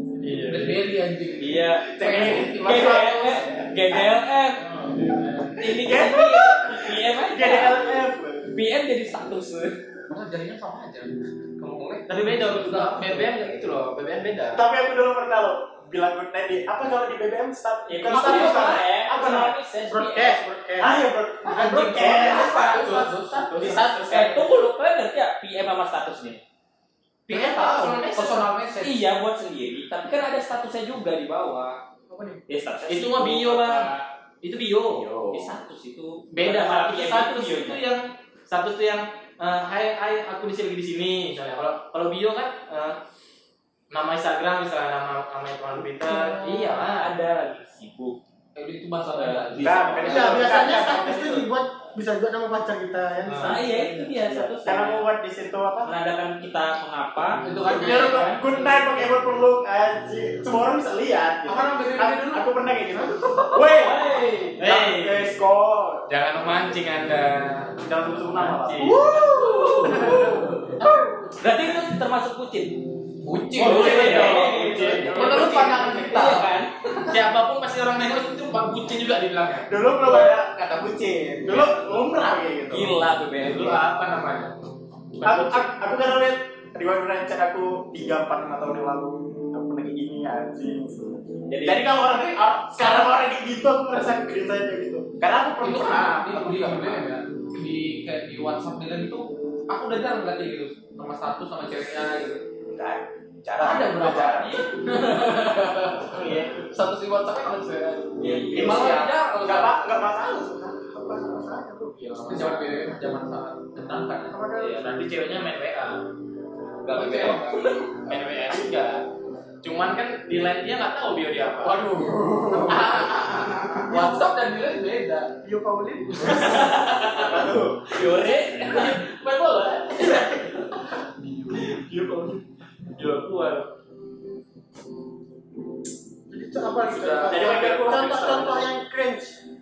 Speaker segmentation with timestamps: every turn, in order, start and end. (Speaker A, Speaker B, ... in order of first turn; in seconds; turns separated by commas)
Speaker A: 0.2-0.8, Speaker B: 0.5-3.4, Speaker C: 1.4-4.7, Speaker D: 1.9-4.0, Speaker A: 4.6-5.6, Speaker C: 5.6-9.8, Speaker D: 5.7-8.5, Speaker B: 10.1-13.5, Speaker A: 12.1-14.6, Speaker D: 14.5-19.5, Speaker C: 17.9-20.5, Speaker B: 18.2-18.7, Speaker E: 19.9-20.9, Speaker D: 20.8-24.0, Speaker B: 21.5-23.4, Speaker A: 21.6-24.4, Speaker C: 22.0-22.6, Speaker C: 23.6-26.4, Speaker A: 27.3-28.4, Speaker B: 27.3-29.0, Speaker C: 28.8-31.8, Speaker E: 32.1-32.4, Speaker C: 32.5-34.0, Speaker A: 32.9-35.0, Speaker D: 35.0-35.5, Speaker C: 35.1-37.8, Speaker A: 36.3-43.0, Speaker A: 43.9-47.1, Speaker E: 46.1-46.8, Speaker C: 46.9-48.2, Speaker B: 48.5-50.5, Speaker C: 49.1-50.7, Speaker D: 49.6-51.4, Speaker E: 50.0-54.1, Speaker A: 53.2-53.6, Speaker C: 53.4-55.1, Speaker D: 54.2-55.9, Speaker C: 55.8-58.4, Speaker B: 57.4-59.0, Speaker D: 57.7-66.0, Speaker B: 61.5-64.3, Speaker C: 63.7-64.6, Speaker A: 64.6-65.3, Speaker A: 66.1-67.8, Speaker D: 67.8-69.0, Speaker A: 68.3-69.0, Speaker B: 68.8-70.9, Speaker E: 69.0-70.2, Speaker C: 69.2-70.2, Speaker A: 69.8-70.6, Speaker C: 71.2-72.7, Speaker B: 73.2-74.5, Speaker D: 73.6-75.8, Speaker C: 73.6-76.7, Speaker A: 73.6-75.8, Speaker B: 75.0-76.5, Speaker A: 77.1-79.7, Speaker D: 79.7-82.9, Speaker C: 82.7-83.8, Speaker A: 83.4-84.5, Speaker A: 85.2-85.6, Speaker D: 85.2-97.0, Speaker C: 91.5-92.0, Speaker B: 95.6-102.4, Speaker D: 102.7-104.6, Speaker B: 103.6-109.9, Speaker D: 106.1-106.5, Speaker C: 108.2-108.9, Speaker D: 108.2-110.6, Speaker E: 110.5-112.0, Speaker A: 112.0-112.5, Speaker B: 112.2-114.7, Speaker E: 114.3-114.9, Speaker A: 114.7-116.0, Speaker C: 116.8-117.8, Speaker B: 116.9-118.0, Speaker A: 118.0-119.0, Speaker A: 119.6-121.9, Speaker B: 121.6-123.1, Speaker E: 122.0-123.0, Speaker A: 122.6-123.7, Speaker B: 123.8-125.3, Speaker E: 123.8-124.2, Speaker E: 125.4-126.7, Speaker B: 126.2-126.6, Speaker C: 126.2-127.2, Speaker D: 126.5-128.0, Speaker A: 126.6-127.3, Speaker C: 127.9-129.0, Speaker A: 128.6-130.8, Speaker D: 131.7-132.4, Speaker A: 132.9-133.7, Speaker E: 136.3-139.4, Speaker A: 137.0-138.2, Speaker D: 137.2-138.7